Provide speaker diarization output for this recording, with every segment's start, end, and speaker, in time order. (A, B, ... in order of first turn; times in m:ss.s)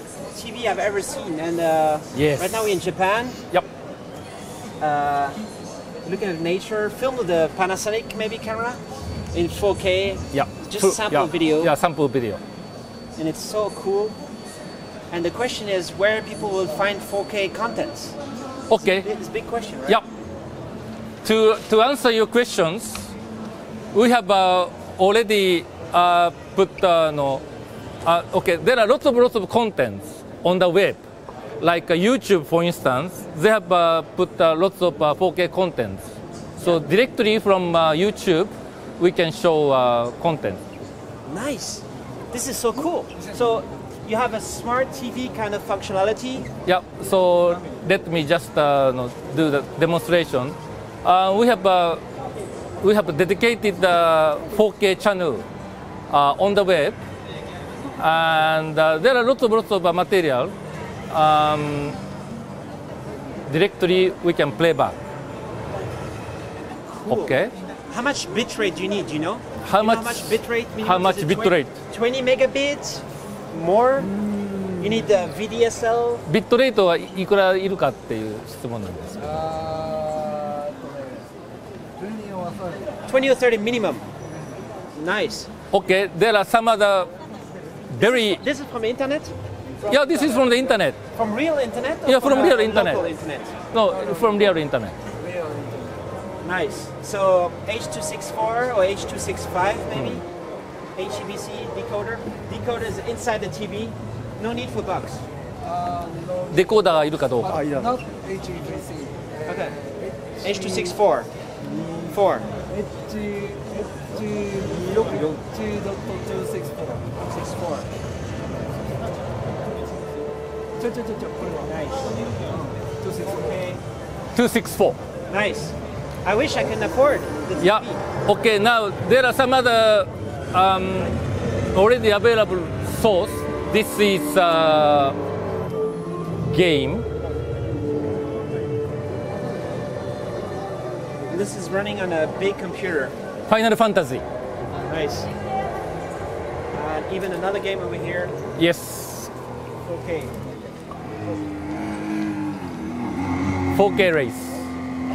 0:00.3-0:03.4 A
0:02.1-0:02.6 B
0:04.8-0:05.4 A
0:06.0-0:08.8 A
0:09.3-0:11.7 A
0:10.3-0:12.4 B
0:13.2-0:14.2 A
0:15.1-0:18.1 A
0:18.7-0:19.0 B
0:18.8-0:20.0 A
0:21.2-0:23.1 B
0:23.9-0:27.4 B
0:28.0-0:31.0 B
0:31.6-0:36.0 B
0:36.6-0:40.6 B
0:41.2-0:46.5 A
0:46.6-0:52.0 B
0:52.8-0:55.4 B
0:56.1-0:57.0 B
0:58.0-1:00.5 B
1:01.1-1:02.0 B
1:03.5-1:05.0 B
1:07.0-1:07.3 A
1:07.1-1:07.5 B
1:07.9-1:14.1 A
1:09.6-1:11.7 B
1:14.3-1:14.7 C
1:14.8-1:16.2 A
1:16.3-1:19.5 B
1:19.4-1:21.2 C
1:22.0-1:22.8 C
1:23.0-1:24.0 A
1:24.9-1:25.5 A
1:25.7-1:27.1 B
1:27.9-1:28.4 B
1:28.0-1:30.5 A
1:29.9-1:31.0 B
1:31.1-1:33.5 A
1:32.0-1:33.1 B
1:33.7-1:35.0 B
1:35.2-1:36.0 C
1:36.4-1:40.2 A
1:41.0-1:45.2 A
1:45.7-1:46.5 C
1:46.5-1:47.7 B
1:47.6-1:49.2 C
1:49.4-1:49.8 A
1:50.4-1:51.3 A
1:52.1-1:52.5 A
1:52.7-1:57.0 C
1:57.2-1:57.9 A
2:00.8-2:01.6 C
2:01.6-2:02.5 A
2:03.0-2:03.8 A
2:04.3-2:05.0 B
2:05.3-2:08.0 A
2:07.6-2:11.2 B
2:11.7-2:15.2 B
2:16.5-2:17.0 B
2:21.3-2:23.1 A
2:23.5-2:24.2 B
2:24.8-2:25.3 A
2:26.7-2:28.3 A
2:28.6-2:29.3 B
2:29.8-2:30.4 A
2:33.7-2:34.6 B